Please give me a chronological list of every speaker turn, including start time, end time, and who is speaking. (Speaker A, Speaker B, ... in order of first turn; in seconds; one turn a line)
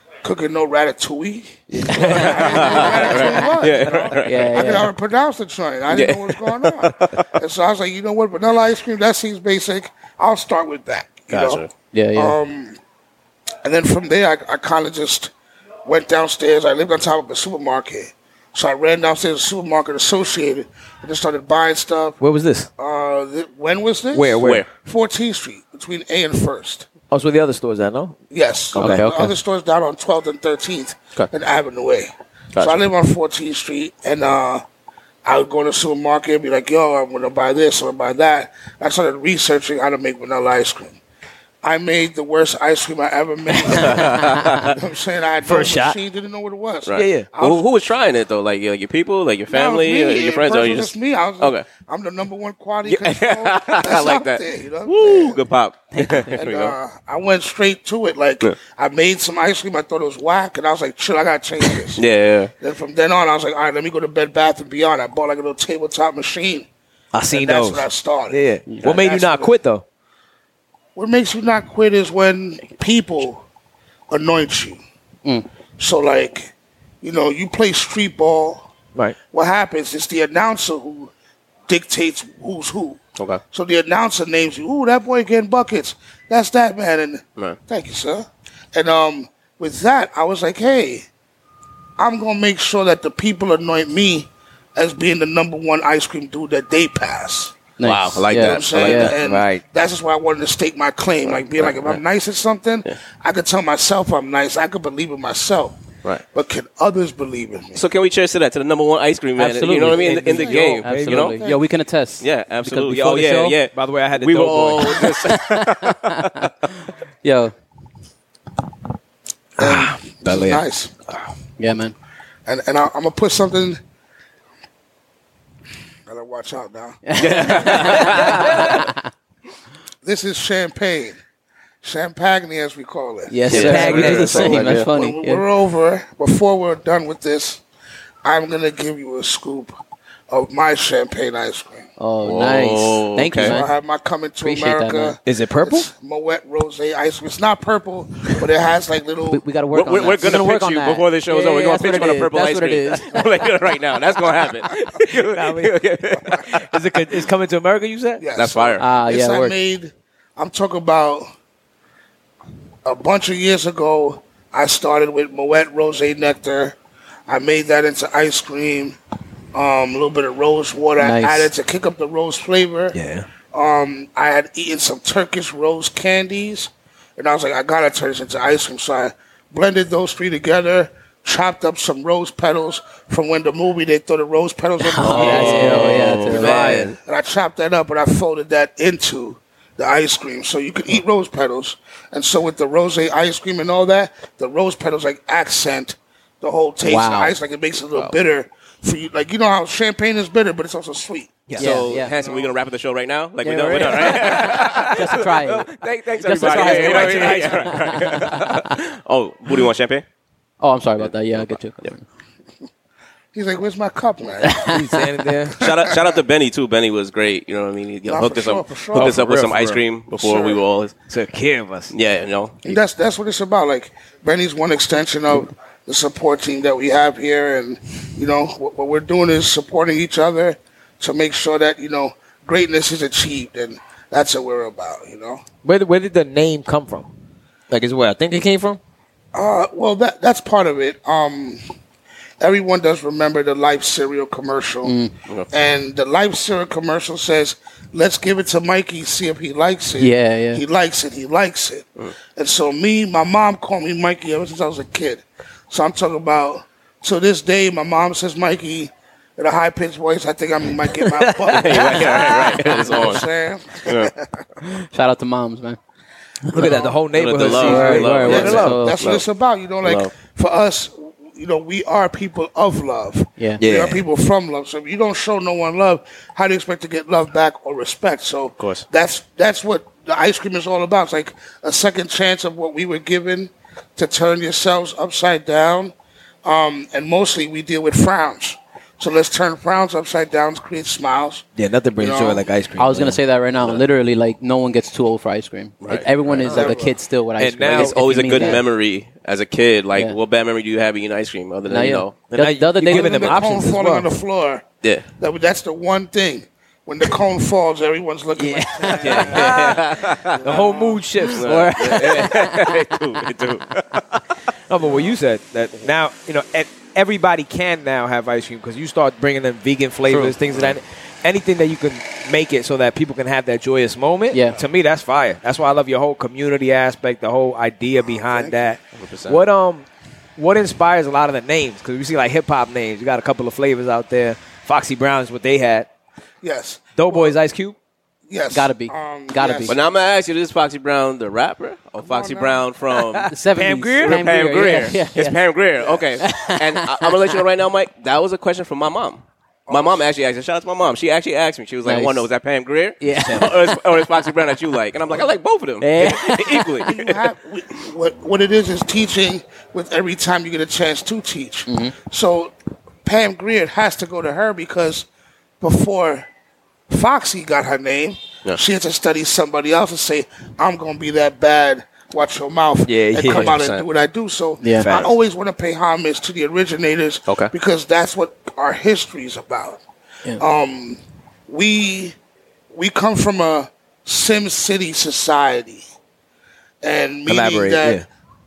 Speaker A: 0.2-12.8
Speaker B: 1.7-3.5
Speaker C: 1.9-2.4
Speaker D: 2.2-4.7
Speaker B: 4.2-4.9
Speaker D: 5.9-7.3
Speaker D: 11.3-11.7
Speaker B: 11.9-12.3
Speaker A: 13.6-15.3
Speaker A: 15.8-22.2
Speaker C: 22.2-22.7
Speaker A: 22.8-26.9
Speaker C: 24.1-24.6
Speaker D: 24.4-24.7
Speaker C: 27.1-28.2
Speaker A: 28.3-34.6
Speaker C: 28.8-29.1
Speaker B: 28.8-29.3
Speaker D: 32.5-32.8
Speaker A: 35.2-41.0
Speaker A: 41.6-47.7
Speaker D: 43.7-44.8
Speaker B: 44.0-44.4
Speaker C: 45.4-46.0
Speaker D: 46.8-51.7
Speaker C: 46.9-47.3
Speaker A: 49.5-55.4
Speaker D: 52.9-56.7
Speaker B: 55.9-56.4
Speaker A: 56.3-62.0
Speaker D: 62.0-62.5
Speaker A: 62.6-66.7
Speaker C: 67.1-69.8
Speaker A: 67.3-69.5
Speaker A: 70.9-73.5
Speaker A: 74.1-74.8
Speaker A: 75.8-78.7
Speaker A: 79.3-81.1
Speaker A: 81.7-83.0
Speaker A: 83.5-91.1
Speaker A: 92.0-97.6
Speaker B: 97.8-99.1
Speaker D: 97.8-99.1
Speaker A: 98.3-107.8
Speaker C: 99.2-99.6
Speaker D: 101.4-102.0
Speaker D: 107.8-111.4
Speaker B: 109.4-112.3
Speaker C: 109.8-111.3
Speaker D: 112.2-116.7
Speaker C: 112.6-115.1
Speaker B: 114.9-116.5
Speaker B: 117.2-117.5
Speaker A: 119.6-120.9
Speaker C: 119.6-121.3
Speaker B: 121.6-121.9
Speaker A: 122.5-123.8
Speaker A: 126.1-128.2
Speaker B: 127.0-128.9
Speaker D: 127.2-128.8
Speaker A: 130.0-131.2
Speaker A: 131.8-137.6
Speaker B: 133.3-135.4
Speaker C: 133.5-134.7
Speaker D: 133.5-134.9
Speaker A: 138.2-141.9
Speaker B: 142.0-143.7
Speaker D: 142.2-143.6
Speaker A: 143.4-149.4
Speaker B: 144.4-145.2
Speaker C: 145.2-145.9
Speaker B: 149.3-153.5
Speaker D: 149.7-156.6
Speaker C: 155.1-158.2
Speaker A: 158.2-161.3
Speaker D: 158.3-158.8
Speaker B: 158.8-159.5
Speaker A: 162.8-166.8
Speaker A: 167.3-169.0
Speaker A: 169.5-172.9
Speaker B: 171.0-171.5
Speaker C: 172.9-173.3
Speaker A: 173.5-201.4
Speaker B: 184.8-186.9
Speaker C: 185.0-186.9
Speaker D: 185.5-186.7
Speaker B: 196.8-197.3
Speaker C: 201.5-201.9
Speaker B: 201.6-202.1
Speaker D: 201.6-210.0
Speaker A: 202.1-202.6
Speaker C: 203.4-205.2
Speaker B: 204.9-208.7
Speaker C: 206.4-208.0
Speaker B: 210.6-212.0
Speaker A: 213.3-214.7
Speaker B: 214.4-215.0
Speaker C: 214.6-215.7
Speaker A: 215.6-216.2
Speaker D: 215.6-220.9
Speaker A: 218.1-219.2
Speaker C: 218.9-219.8
Speaker A: 220.1-220.6
Speaker C: 221.1-221.9
Speaker D: 221.9-222.6
Speaker A: 222.6-235.4
Speaker C: 235.6-237.1
Speaker C: 237.7-238.8
Speaker A: 239.3-241.6
Speaker A: 242.4-244.9
Speaker B: 244.8-245.1
Speaker A: 245.5-264.4
Speaker B: 250.0-250.6
Speaker C: 261.0-262.8
Speaker D: 261.4-263.2
Speaker D: 263.8-264.1
Speaker B: 264.8-265.8
Speaker C: 266.5-268.8
Speaker A: 266.6-266.9
Speaker D: 267.1-269.2
Speaker B: 267.4-269.0
Speaker A: 268.2-285.9
Speaker D: 269.8-270.1
Speaker C: 273.6-274.0
Speaker D: 278.6-278.8
Speaker A: 286.4-291.4
Speaker C: 291.6-293.2
Speaker A: 291.9-292.5
Speaker B: 292.8-298.6
Speaker C: 296.2-296.7
Speaker A: 296.4-296.9
Speaker C: 297.4-298.6
Speaker D: 297.7-302.1
Speaker B: 301.7-303.7
Speaker C: 302.3-304.1
Speaker A: 302.8-304.6
Speaker A: 305.2-309.5
Speaker C: 308.5-312.3
Speaker B: 308.6-309.8
Speaker D: 309.0-310.6
Speaker A: 310.4-311.0
Speaker D: 311.2-314.2
Speaker B: 311.2-312.9
Speaker C: 314.7-329.9
Speaker D: 320.1-320.8
Speaker B: 324.3-324.6
Speaker A: 328.1-328.6
Speaker D: 328.9-329.4
Speaker C: 330.4-335.9
Speaker A: 336.4-337.4
Speaker C: 336.9-337.8
Speaker A: 338.3-339.8
Speaker B: 338.5-339.7
Speaker D: 339.7-343.3
Speaker A: 342.0-342.6
Speaker C: 342.9-344.4
Speaker B: 343.3-345.4
Speaker D: 344.0-357.2
Speaker A: 345.8-346.2
Speaker B: 346.2-347.4
Speaker A: 349.7-350.1
Speaker B: 351.9-352.2
Speaker B: 353.0-353.8
Speaker B: 355.8-356.9
Speaker A: 356.8-362.5
Speaker B: 361.7-361.9
Speaker A: 363.0-365.1
Speaker A: 365.6-366.3
Speaker A: 366.9-379.8
Speaker C: 372.8-373.6
Speaker D: 373.3-373.8
Speaker B: 374.6-374.9
Speaker C: 374.8-375.1
Speaker A: 380.4-382.1
Speaker A: 382.7-385.8
Speaker A: 386.8-388.0
Speaker C: 387.3-388.0